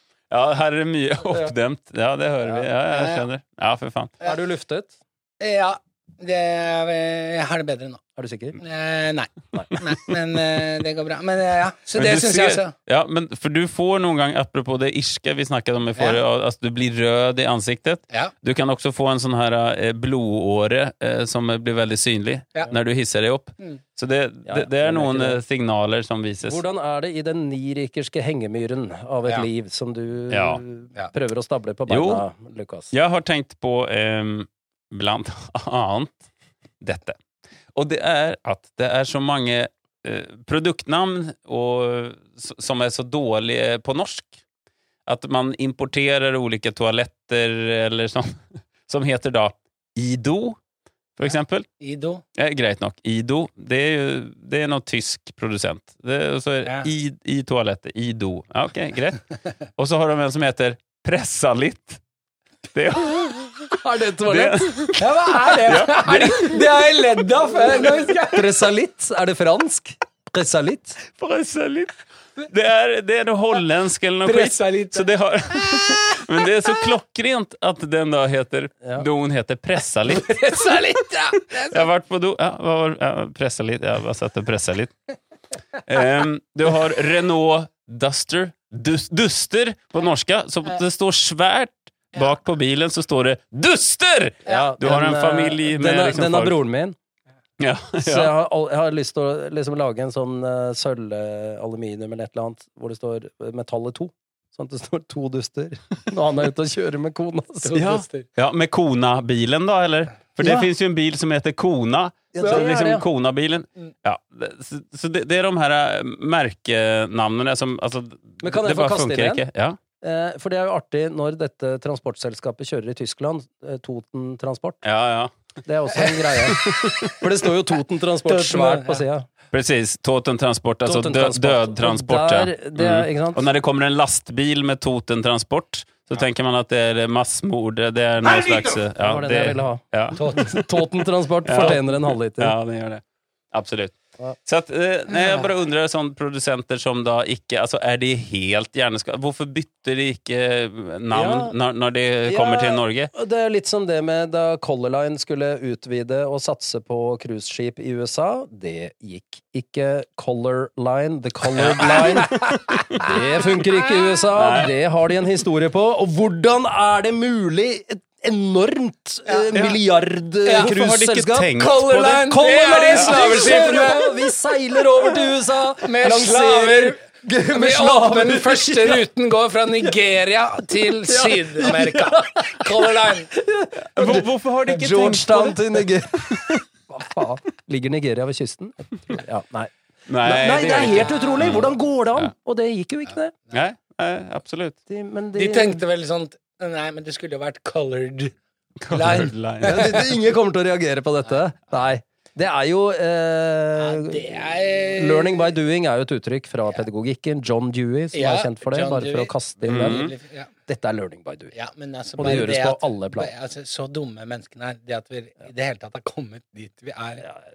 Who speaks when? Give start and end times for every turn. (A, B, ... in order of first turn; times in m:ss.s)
0:00.3-0:04.1 A
0:02.9-0:03.2 B
0:04.2-0:05.0 C
0:05.4-0:08.0 B
0:08.2-0:08.6 C
0:08.6-0:12.7 B
0:12.0-0:26.6 A
0:24.5-0:25.4 C
0:26.4-0:32.9 C
0:30.3-0:30.6 A
0:31.9-0:32.2 A
0:32.9-0:36.3 A
0:36.8-0:37.2 A
0:37.7-0:44.4 A
0:45.1-0:50.6 A
0:51.2-0:51.7 A
0:51.8-0:52.2 B
0:52.4-0:59.2 A
0:56.6-0:56.9 B
0:59.8-1:02.0 A
1:02.7-1:05.0 A
1:03.7-1:05.0 C
1:05.0-1:08.5 B
1:05.7-1:06.6 A
1:08.3-1:11.0 C
1:11.0-1:20.4 A
1:14.2-1:15.1 B
1:20.1-1:21.9 B
1:21.6-1:25.0 A
1:25.8-1:36.6 A
1:34.5-1:37.0 C
1:37.6-1:38.3 A
1:38.0-1:47.8 C
1:47.6-1:48.3 B
1:47.7-1:59.8 A
1:50.4-1:50.7 C
1:52.3-1:53.0 C
1:52.4-1:52.6 B
1:58.4-1:59.4 C
2:00.0-2:04.8 C
2:04.8-2:05.4 A
2:05.6-2:09.3 C
2:06.4-2:06.8 A
2:08.2-2:09.0 B
2:09.5-2:20.8 A
2:10.8-2:13.5 C
2:18.2-2:18.8 B
2:19.0-2:22.6 C
2:20.2-2:20.5 B
2:21.4-2:33.1 A
2:31.1-2:31.5 C
2:32.3-2:51.6 C
2:41.6-2:42.5 A
2:44.4-2:44.7 A
2:49.5-2:49.8 A
2:50.5-2:50.7 B
2:50.6-2:52.3 A
2:51.6-2:54.2 B
2:52.2-2:59.0 C
2:53.0-2:53.6 A
2:55.8-2:57.0 B
2:57.5-3:03.3 B
3:01.1-3:13.3 C
3:03.9-3:06.5 A
3:10.1-3:12.3 A
3:13.5-3:14.8 A
3:14.9-3:15.8 C
3:15.4-3:18.4 B
3:18.8-3:20.0 A
3:18.9-3:20.1 B
3:19.6-3:30.1 C
3:23.8-3:25.5 B
3:28.1-3:30.5 B
3:29.7-3:30.1 A
3:30.7-3:31.5 C
3:31.5-3:37.2 B
3:32.2-3:33.3 C